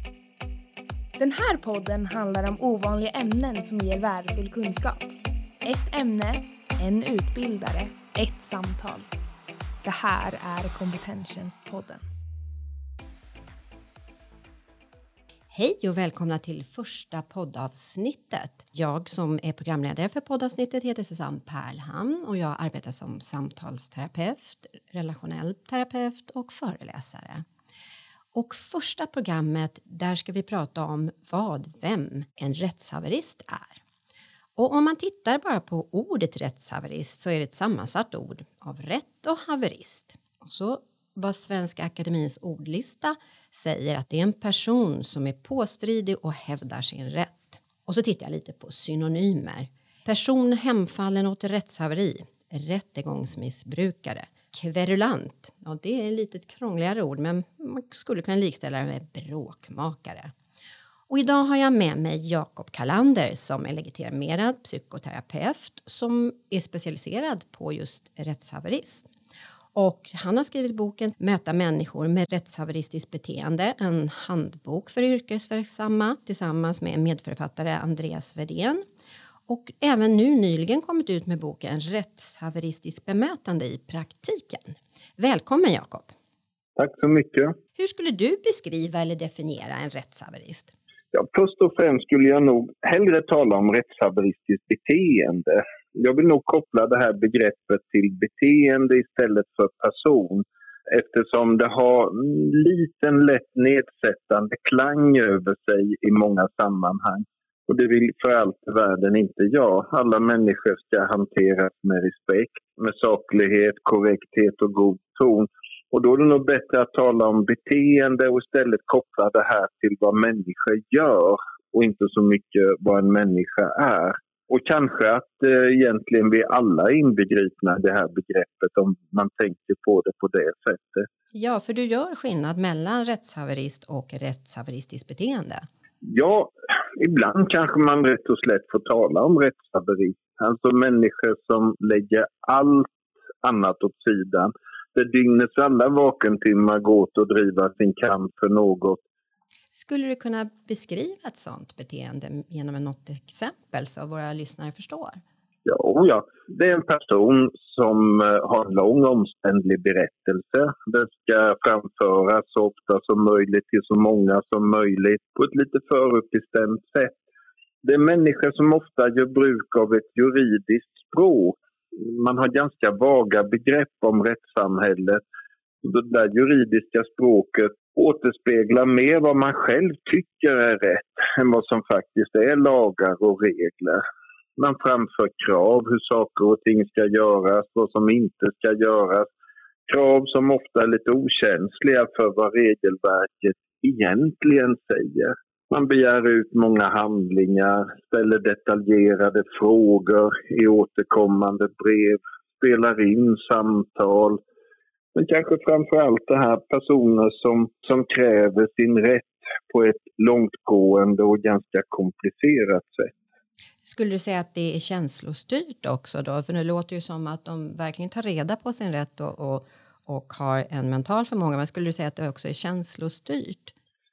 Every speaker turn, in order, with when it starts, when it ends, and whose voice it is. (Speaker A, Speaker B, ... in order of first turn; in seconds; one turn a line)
Speaker A: 1.2-5.1
Speaker A: 5.6-9.1
Speaker A: 9.8-12.0
Speaker B: 15.5-27.4
Speaker B: 28.3-33.8
Speaker B: 34.6-60.3
Speaker B: 61.1-69.1
Speaker B: 69.7-78.8
Speaker B: 79.5-86.1
Speaker C: 86.8-87.5
Speaker B: 87.8-90.7
Speaker C: 91.1-131.1
Speaker B: 131.3-135.7
Speaker C: 136.0-142.9
Speaker C: 143.4-149.0
Speaker B: 149.7-155.2
Speaker C: 155.6-167.2
Speaker C: 167.8-175.2
Speaker C: 175.8-184.0
Speaker C: 184.6-189.3
Speaker C: 189.9-204.4
Speaker C: 205.1-213.2
Speaker B: 213.8-223.7